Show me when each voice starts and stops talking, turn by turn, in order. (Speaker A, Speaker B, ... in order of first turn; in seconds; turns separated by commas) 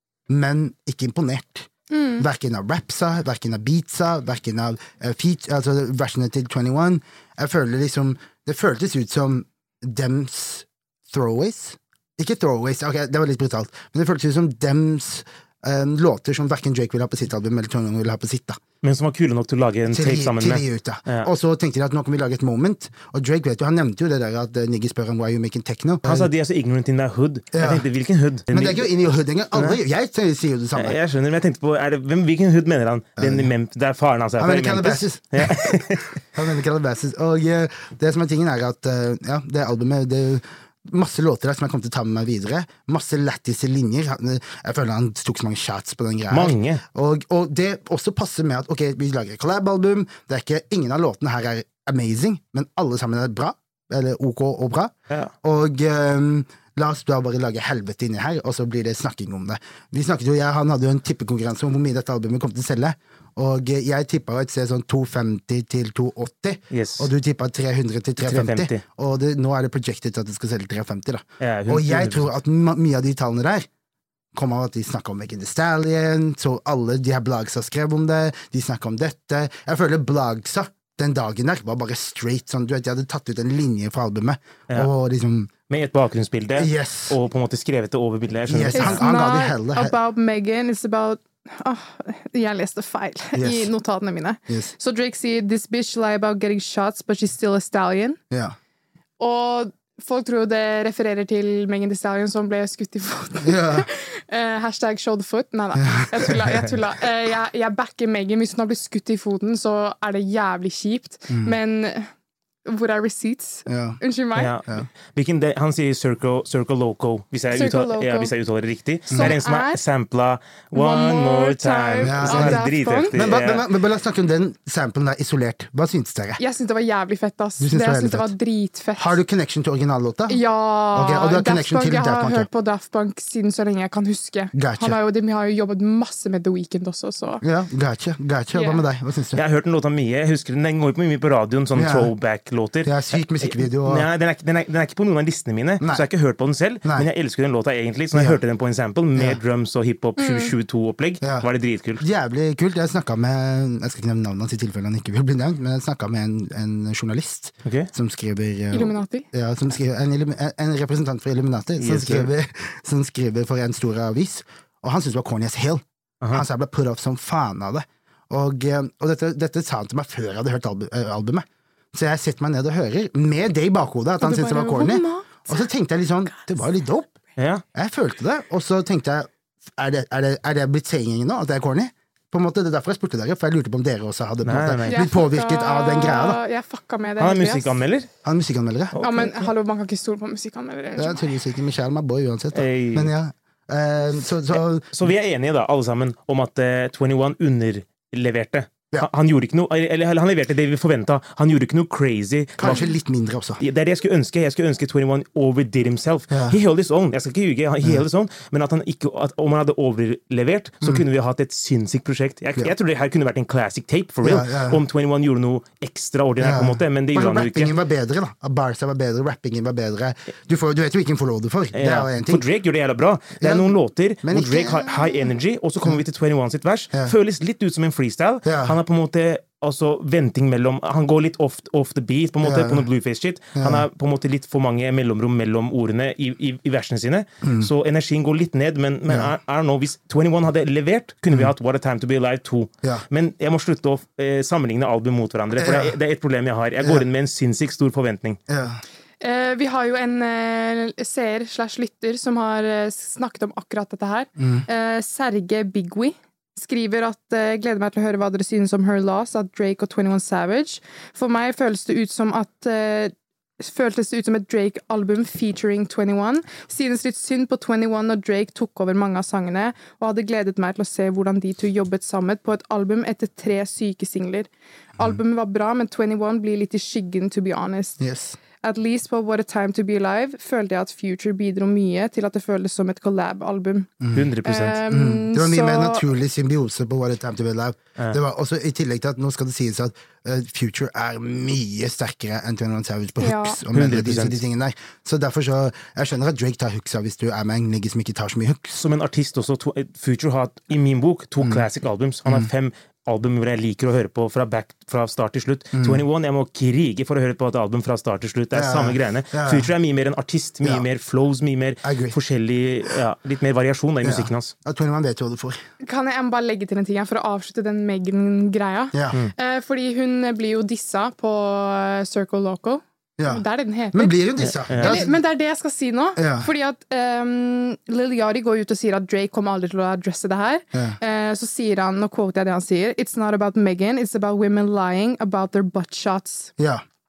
Speaker A: 0.3-18.6, Speaker B: 1.9-2.2, Speaker C: 18.8-21.3, Speaker A: 19.9-26.3, Speaker C: 26.0-28.9, Speaker A: 27.5-27.8, Speaker A: 28.5-31.0, Speaker C: 30.7-36.1, Speaker A: 33.2-33.5, Speaker A: 34.4-73.7, Speaker C: 46.3-46.8, Speaker C: 66.7-67.1, Speaker C: 68.2-68.8, Speaker C: 71.4-72.3, Speaker A: 74.3-85.5, Speaker C: 85.7-89.0, Speaker A: 86.5-87.2, Speaker A: 88.5-89.9, Speaker B: 88.7-98.2, Speaker A: 93.3-93.7, Speaker A: 98.3-98.5, Speaker B: 99.2-112.1, Speaker A: 103.4-103.9, Speaker A: 105.8-106.7, Speaker A: 111.3-111.5, Speaker B: 112.6-114.5, Speaker A: 113.7-114.0, Speaker C: 114.3-123.6, Speaker B: 117.5-118.3, Speaker B: 119.1-119.8, Speaker B: 120.7-123.2, Speaker A: 122.0-122.6, Speaker A: 123.1-126.4, Speaker B: 126.4-129.2, Speaker A: 127.6-128.3, Speaker A: 128.9-130.4, Speaker B: 130.3-137.4, Speaker A: 130.9-132.5, Speaker A: 134.5-135.0, Speaker A: 137.4-139.4, Speaker B: 138.5-138.8, Speaker C: 139.3-152.0, Speaker A: 141.7-142.1, Speaker A: 142.8-144.1, Speaker A: 145.8-146.1, Speaker A: 148.1-148.4, Speaker A: 149.1-149.4, Speaker B: 150.2-150.5, Speaker A: 151.2-151.5, Speaker A: 152.0-177.1, Speaker C: 157.6-157.9, Speaker B: 158.7-159.2, Speaker C: 161.8-162.3, Speaker B: 174.2-175.6, Speaker C: 177.4-177.6, Speaker A: 177.7-186.4, Speaker C: 184.4-185.1, Speaker B: 184.9-187.7, Speaker C: 187.2-188.1, Speaker A: 188.2-189.0, Speaker C: 188.9-189.4, Speaker B: 189.0-191.3, Speaker A: 191.0-194.9, Speaker C: 192.5-193.1, Speaker C: 194.5-202.8, Speaker A: 202.6-203.6, Speaker C: 203.6-217.7, Speaker A: 206.3-206.6, Speaker A: 214.2-214.8, Speaker A: 216.4-222.4, Speaker C: 221.7-248.4, Speaker A: 223.4-224.9, Speaker A: 228.4-228.8, Speaker A: 232.4-232.8, Speaker A: 233.5-233.8, Speaker A: 237.4-237.7, Speaker A: 239.1-239.3, Speaker A: 245.6-245.9, Speaker A: 248.5-248.8, Speaker B: 249.2-278.0, Speaker A: 254.4-254.7, Speaker A: 278.0-278.4, Speaker B: 278.6-286.0, Speaker A: 284.0-284.3, Speaker C: 284.1-284.8, Speaker A: 284.9-298.8, Speaker B: 293.2-293.6, Speaker C: 293.7-294.4, Speaker C: 298.8-314.5, Speaker A: 305.7-306.0, Speaker A: 308.5-309.7, Speaker A: 311.8-312.1, Speaker A: 314.0-315.6, Speaker B: 315.8-324.2, Speaker A: 323.2-325.1, Speaker C: 324.4-325.0, Speaker B: 324.8-336.5, Speaker A: 326.1-326.5